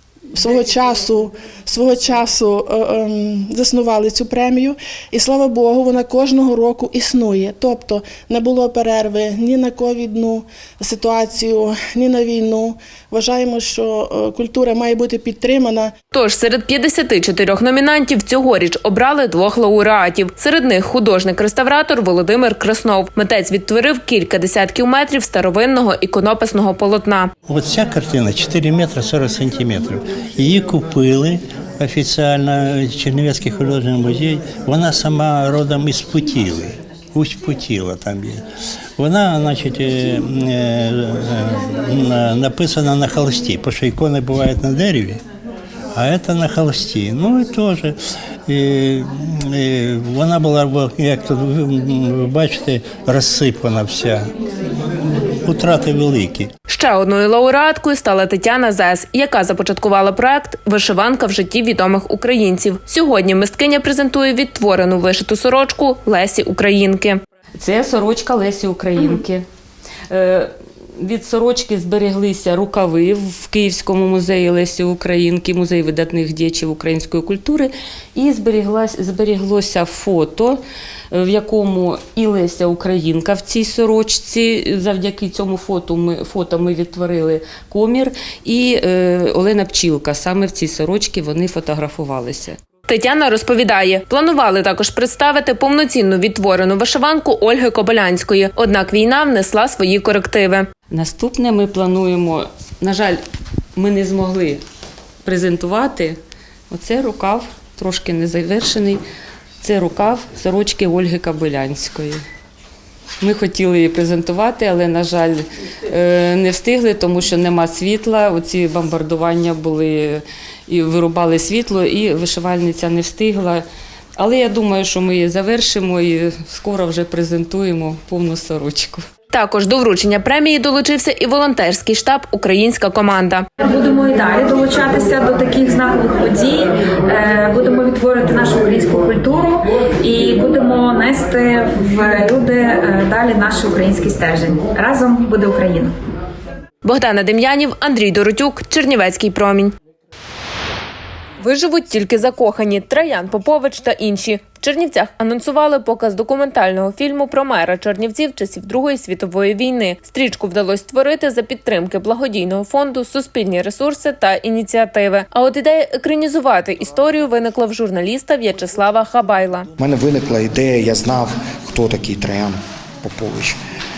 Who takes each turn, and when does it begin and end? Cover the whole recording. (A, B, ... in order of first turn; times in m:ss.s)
0:00.4-0:16.0 A
0:16.1-0:27.3 B
0:27.5-0:38.4 C
0:39.0-0:45.2 C
0:45.9-0:54.3 C
0:55.4-0:56.5 C
0:56.7-1:07.2 B
1:07.6-1:09.5 D
1:10.1-1:32.6 D
1:32.9-1:40.7 B
1:40.9-1:43.2 D
1:43.8-1:44.6 D
1:45.2-1:46.2 D
1:46.7-1:49.0 D
1:49.6-1:52.2 D
1:53.2-2:03.6 D
2:04.2-2:09.0 D
2:09.3-2:13.5 B
2:13.6-2:25.9 E
2:26.8-2:29.7 B
2:31.4-2:49.7 B
2:49.8-2:53.6 F